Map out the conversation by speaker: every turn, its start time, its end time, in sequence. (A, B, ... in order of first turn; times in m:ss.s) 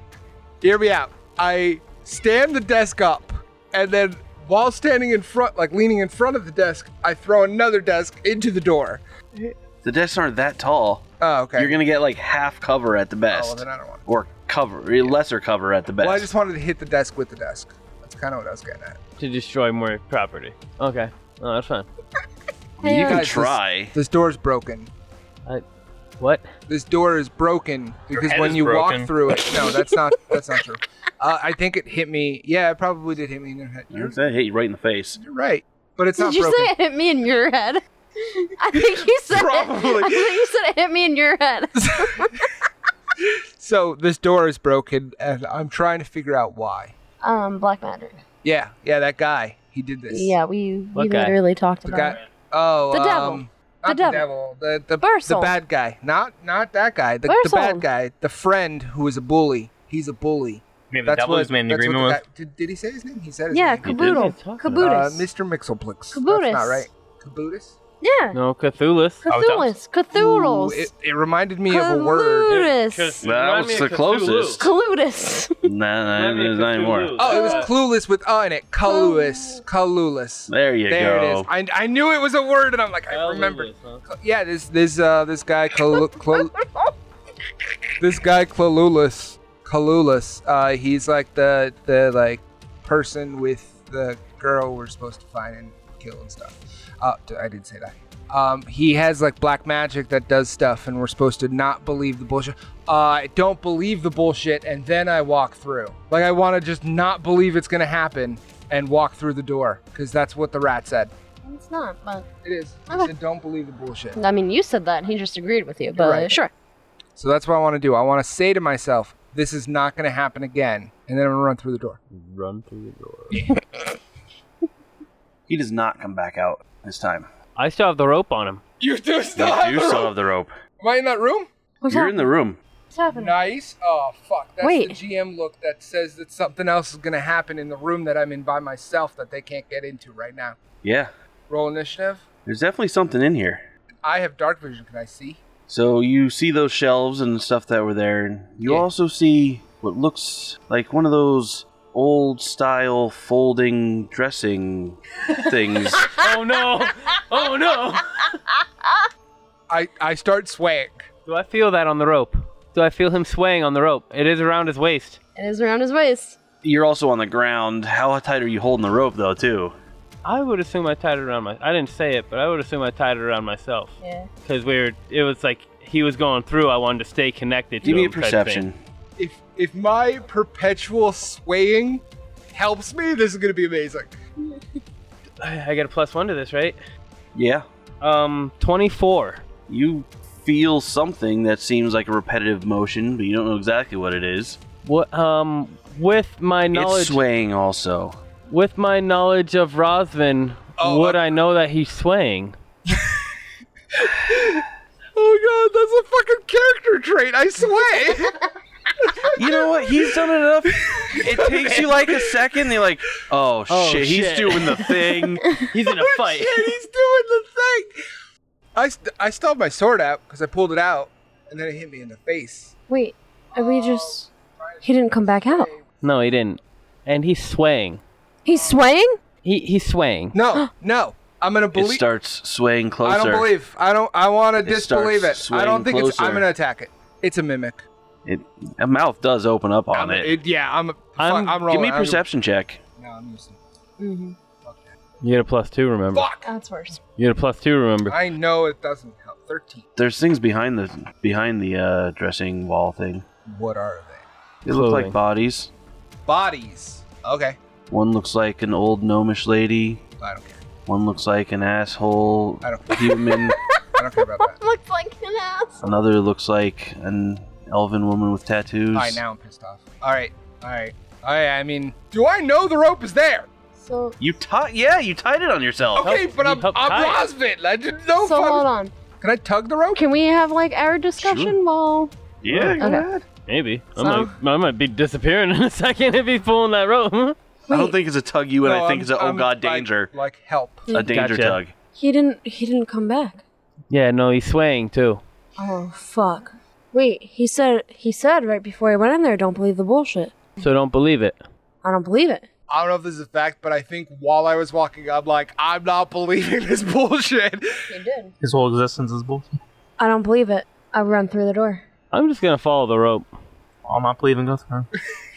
0:00.6-0:09.0 A
0:09.8-0:11.0 B
0:11.2-0:11.8 A
0:11.6-0:16.3 B
0:13.3-0:14.0 A
0:16.0-0:19.0 A
0:19.2-0:21.9 C
0:22.8-0:23.9 B
0:22.8-0:23.2 D
0:23.0-0:24.9 A
0:26.2-0:26.5 C
0:26.7-0:34.2 A
0:28.1-0:29.1 E
0:29.5-0:30.0 D
0:33.9-0:35.2 B
0:35.2-0:36.7 A
0:36.2-0:42.5 D
0:38.7-0:40.4 A
0:41.8-0:42.4 A
0:43.2-0:46.9 A
0:47.2-0:48.2 D
0:48.4-0:50.4 A
0:50.1-0:52.2 D
0:50.9-0:51.4 C
0:51.8-1:04.0 A
0:52.9-0:54.3 D
0:55.0-0:55.5 D
0:57.3-0:57.8 D
1:00.9-1:02.2 E
1:03.5-1:05.2 D
1:03.8-1:04.2 B
1:04.1-1:05.0 C
1:04.8-1:07.8 A
1:06.1-1:06.8 D
1:08.0-1:08.4 D
1:08.3-1:09.2 C
1:09.2-1:10.9 D
1:09.3-1:09.8 E
1:10.1-1:12.6 A
1:11.7-1:13.2 D
1:12.5-1:14.6 C
1:13.2-1:14.7 B
1:14.6-1:15.7 D
1:15.6-1:17.1 B
1:16.1-1:17.7 C
1:17.2-1:26.6 A
1:17.2-1:17.7 D
1:18.8-1:19.6 D
1:20.5-1:21.5 B
1:23.1-1:24.0 C
1:26.1-1:26.9 D
1:28.0-1:51.1 A
1:51.4-1:52.3 D
1:52.4-1:54.2 A
1:54.2-1:56.5 D
1:55.9-1:56.3 A
1:57.2-2:02.0 A
2:02.1-2:03.5 C
2:03.3-2:03.6 A
2:05.5-2:07.3 B
2:07.6-2:08.6 C
2:08.8-2:10.1 A
2:09.4-2:10.5 B
2:10.8-2:11.5 A
2:11.8-2:12.3 D
2:11.9-2:12.6 B
2:12.9-2:13.3 D
2:13.1-2:20.6 A
2:14.6-2:15.0 D
2:20.8-2:21.1 B
2:21.5-2:22.2 A
2:22.4-2:23.6 B
2:24.0-2:25.4 A
2:25.7-2:36.2 B
2:36.2-2:38.4 C
2:39.7-2:41.0 A
2:41.2-2:45.2 C
2:45.4-2:46.4 D
2:46.6-2:49.7 B
2:50.2-2:58.6 C
2:54.0-2:54.3 D
2:57.8-2:58.8 B
2:59.2-3:04.2 A
3:05.4-3:06.8 C
3:07.3-3:07.6 B
3:08.0-3:09.4 C
3:09.7-3:14.6 B
3:14.8-3:17.2 C
3:16.7-3:18.2 B
3:18.5-3:22.6 C
3:20.8-3:21.3 A
3:22.9-3:23.3 A
3:23.9-3:28.4 A
3:29.0-3:32.8 A
3:29.3-3:35.4 B
3:33.7-3:34.9 C
3:35.7-3:36.7 C
3:35.8-3:38.0 A
3:38.7-3:42.7 A
3:42.9-3:44.2 D
3:43.5-3:45.8 A
3:44.8-3:45.7 D
3:46.0-3:48.0 C
3:48.4-3:49.2 D
3:48.5-3:48.8 A
3:49.4-3:50.4 C
3:50.3-3:52.0 A
3:51.7-3:53.5 B
3:53.0-3:57.8 A
3:54.6-3:56.5 B
3:58.2-4:00.4 B
3:59.9-4:02.2 A
4:01.2-4:01.6 C
4:01.7-4:02.8 B
4:03.0-4:03.6 A
4:04.0-4:04.4 D
4:04.6-4:04.9 A
4:05.2-4:06.3 C
4:06.1-4:06.5 A
4:06.4-4:07.0 D
4:07.2-4:08.2 C
4:08.1-4:09.9 A
4:10.0-4:13.2 B
4:13.4-4:14.2 A
4:14.6-4:15.7 B
4:14.7-4:15.2 C
4:16.3-4:17.6 A
4:17.9-4:20.0 B
4:20.2-4:20.6 A
4:20.9-4:23.6 B
4:22.6-4:23.2 A
4:23.0-4:23.6 D
4:23.9-4:24.6 A
4:24.5-4:25.9 D
4:25.8-4:29.2 B
4:28.9-4:33.5 A
4:33.8-4:34.2 D
4:34.2-4:36.1 B
4:36.0-4:38.7 A
4:36.0-4:37.2 C
4:38.2-4:38.9 D
4:39.2-4:40.0 A
4:39.9-4:42.1 D
4:41.2-4:41.6 B
4:42.4-4:43.2 B
4:42.5-4:42.8 C
4:42.8-4:43.0 D
4:43.5-4:47.4 C
4:44.0-4:44.3 A
4:47.7-4:47.9 D
4:47.7-4:50.1 B
4:48.6-4:50.9 A
4:50.9-4:51.7 B
4:51.0-4:51.6 C
4:51.9-4:53.4 D
4:53.9-4:55.2 C
4:55.6-5:00.4 D
5:00.6-5:01.4 C
5:01.8-5:02.5 D
5:02.7-5:07.9 A
5:07.9-5:08.3 D
5:08.4-5:09.5 E
5:10.0-5:11.8 D
5:12.1-5:13.3 C
5:13.8-5:14.9 E